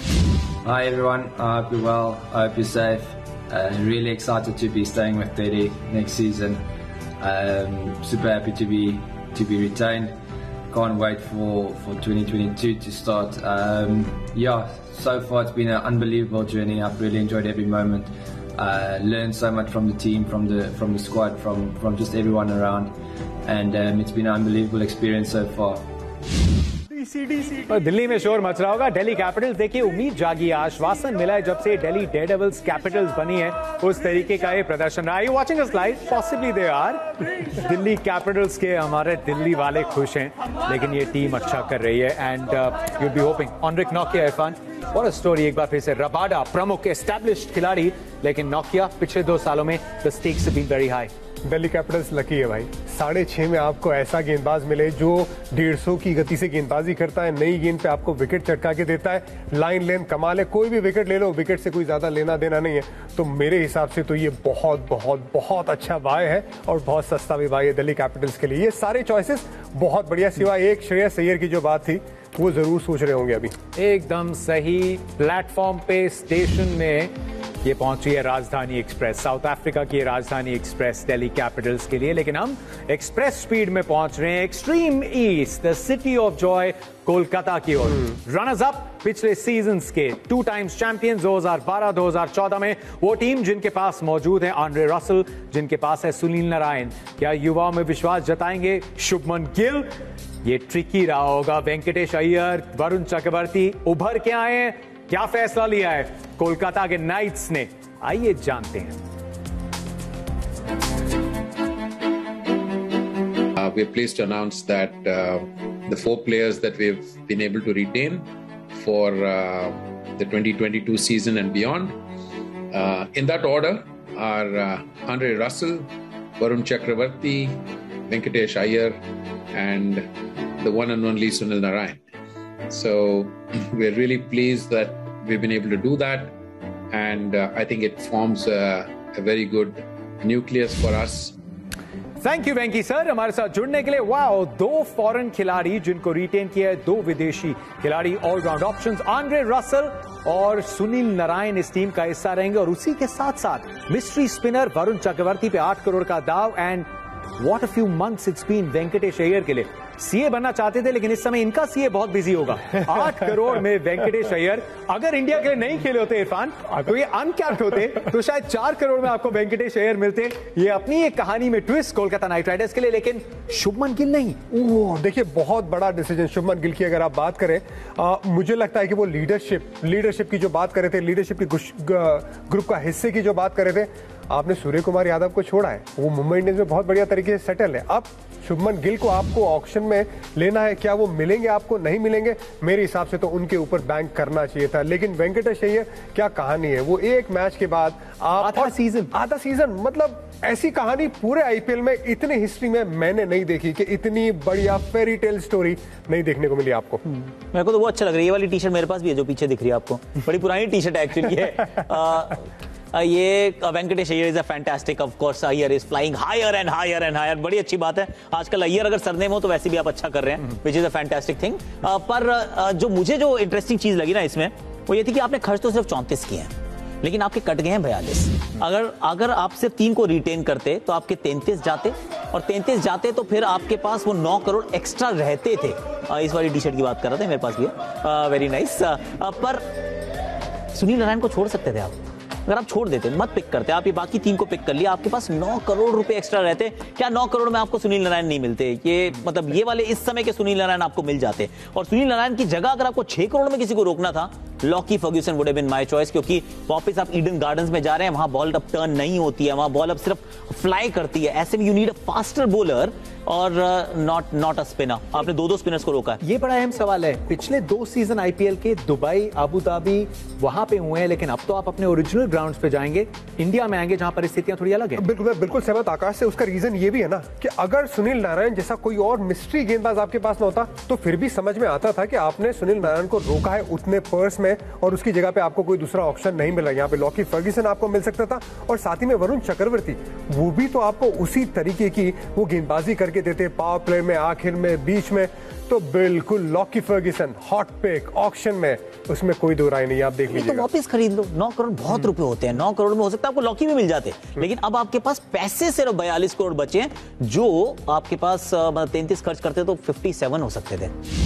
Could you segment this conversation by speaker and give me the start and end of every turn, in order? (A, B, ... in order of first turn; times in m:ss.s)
0:00.6-0:06.6 A
0:07.2-0:10.2 A
0:10.7-0:25.8 A
0:26.9-0:51.1 B
0:51.4-1:13.5 C
1:13.7-1:17.1 B
1:17.6-1:39.9 B
1:40.4-1:49.0 B
1:53.6-2:02.0 D
2:02.7-2:09.0 D
2:09.5-2:10.1 D
2:10.6-2:12.0 D
2:12.7-2:16.3 D
2:16.9-2:21.3 D
2:22.2-2:54.4 B
2:54.5-3:27.0 C
3:18.4-3:19.1 B
3:27.1-3:59.6 E
4:00.7-4:01.9 E
4:02.4-4:26.2 E
4:26.2-4:35.0 B
4:35.0-5:00.7 C
5:00.3-5:10.9 E